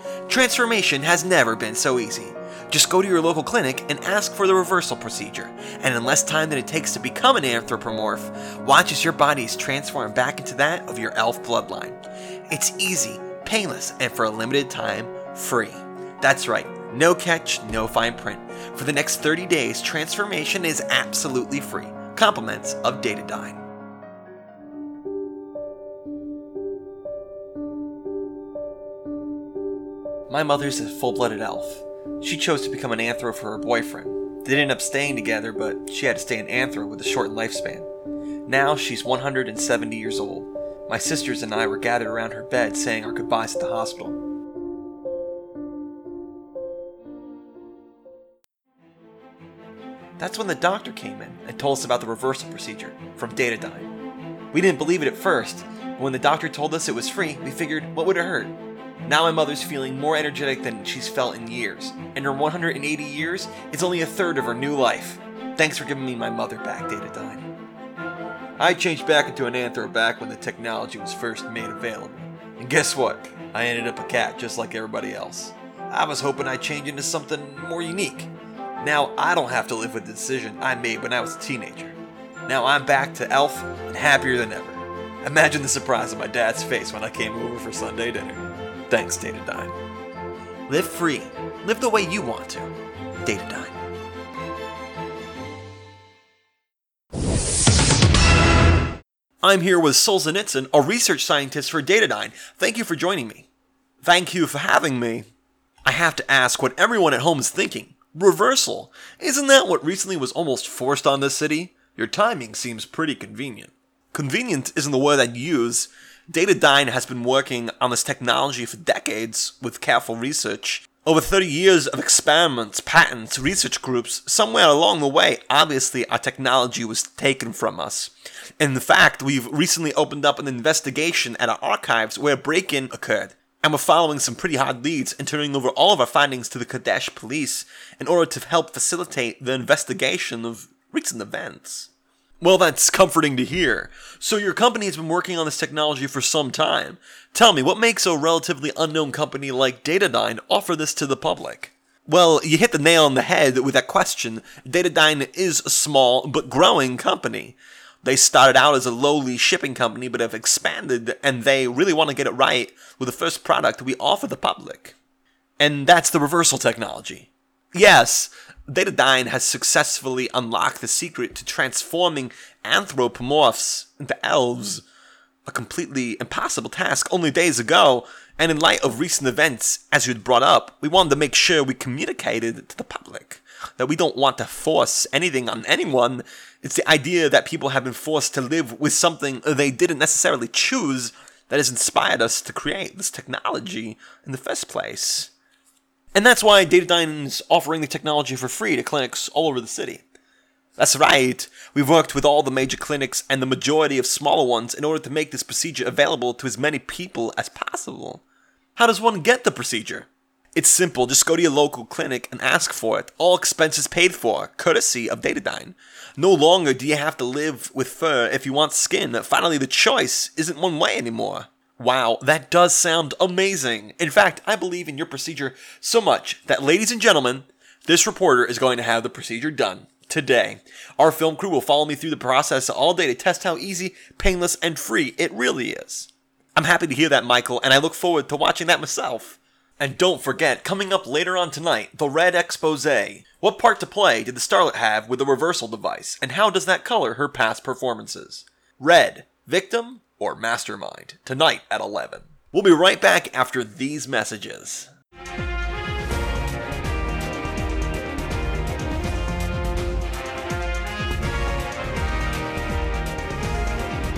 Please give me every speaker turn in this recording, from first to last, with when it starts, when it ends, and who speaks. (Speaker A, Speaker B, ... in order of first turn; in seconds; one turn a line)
Speaker A: 0.3-12.0
Speaker A: 12.5-23.6
Speaker A: 30.3-37.9
Speaker A: 38.5-44.2
Speaker A: 50.2-53.9
Speaker A: 54.5-67.5
Speaker A: 68.6-89.7
Speaker A: 90.7-93.8
Speaker A: 99.4-103.5
Speaker A: 104.0-105.3
Speaker A: 105.8-164.9
Speaker A: 165.6-174.8
Speaker A: 175.4-195.3
Speaker A: 196.1-200.0
Speaker A: 200.8-208.2
Speaker A: 208.8-254.9